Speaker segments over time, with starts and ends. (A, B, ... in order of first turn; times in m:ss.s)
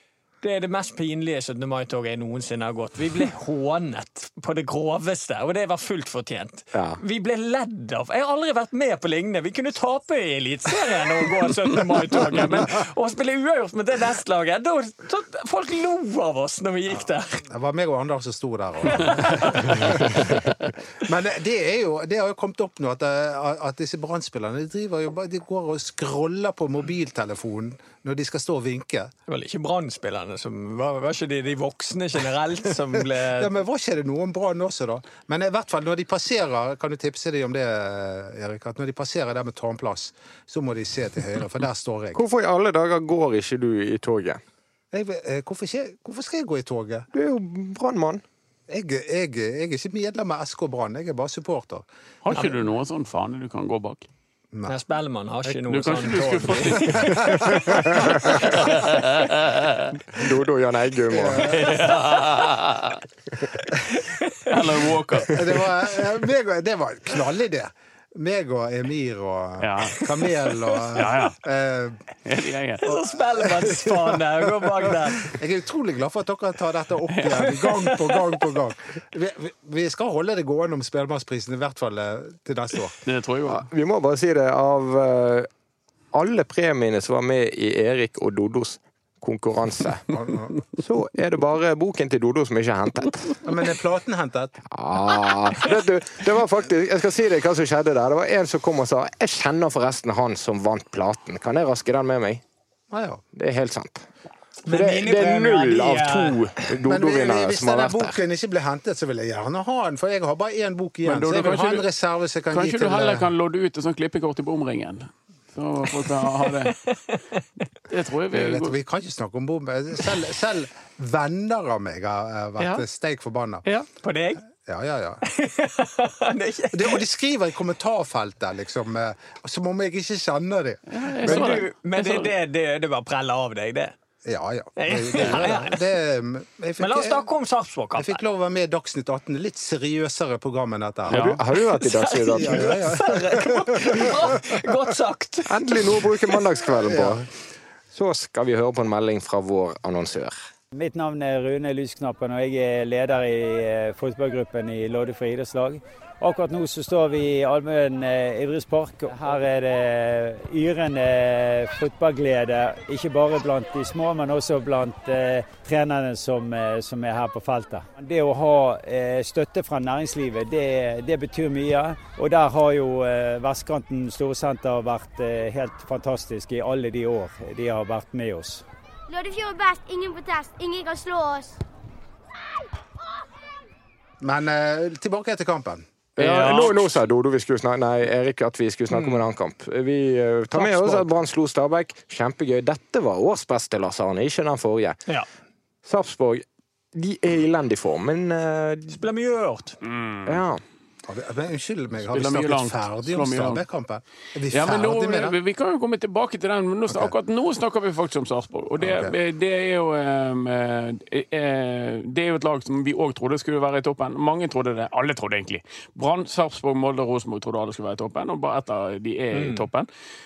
0:00.4-0:17.4 A
0:06.7-0:07.0 B
0:17.5-0:29.1 C
0:29.3-0:33.5 A
0:33.4-0:42.2 C
0:42.1-0:44.4 B
0:44.9-0:47.1 C
0:47.1-0:48.2 B
0:48.7-0:51.8 C
0:52.2-0:54.1 D
0:54.6-0:58.7 A
0:55.7-0:59.9 D
0:56.7-0:58.8 C
0:57.7-0:58.4 B
1:00.1-1:01.6 B
1:01.1-1:01.7 C
1:01.4-1:03.0 D
1:03.9-1:04.6 A
1:04.4-1:05.6 D
1:05.3-1:12.0 C
1:09.6-1:10.0 D
1:10.9-1:11.4 D
1:12.2-1:12.8 D
1:12.8-1:15.3 A
1:13.4-1:23.0 C
1:17.1-1:17.8 D
1:23.0-1:23.6 D
1:23.5-1:25.5 B
1:26.1-1:30.0 B
1:30.1-1:30.6 C
1:30.7-1:33.4 B
1:33.4-1:34.6 C
1:34.7-1:42.4 B
1:42.9-1:43.2 C
1:43.3-1:44.1 B
1:44.6-1:46.4 A
1:44.7-1:48.2 B
1:46.8-1:53.3 C
1:51.0-1:51.9 D
1:52.5-1:56.7 D
1:56.0-1:57.4 A
1:57.9-1:58.8 D
1:58.3-2:03.6 C
2:02.6-2:02.8 D
2:04.0-2:04.4 A
2:04.6-2:05.2 C
2:05.2-2:07.0 A
2:06.7-2:11.6 C
2:10.9-2:12.3 D
2:11.2-2:13.9 A
2:14.2-2:17.2 C
2:14.8-2:15.8 A
2:15.1-2:15.5 D
2:16.8-2:18.2 A
2:18.0-2:21.2 C
2:21.1-2:21.4 D
2:21.1-2:22.8 B
2:21.5-2:25.6 A
2:22.4-2:24.6 C
2:25.4-2:27.3 B
2:26.8-2:27.2 C
2:27.9-2:30.3 B
2:30.7-2:58.6 E
2:59.1-3:01.6 F
3:04.2-3:06.0 C
3:06.2-3:15.0 B
3:06.4-3:06.7 D
3:08.9-3:09.2 A
3:10.5-3:11.0 A
3:15.8-3:19.0 B
3:18.9-3:19.8 A
3:19.8-3:20.4 D
3:20.2-3:20.6 B
3:21.1-3:25.4 C
3:22.1-3:23.6 D
3:24.5-3:39.9 D
3:26.9-3:27.1 C
3:28.8-3:29.2 C
3:39.3-3:39.7 A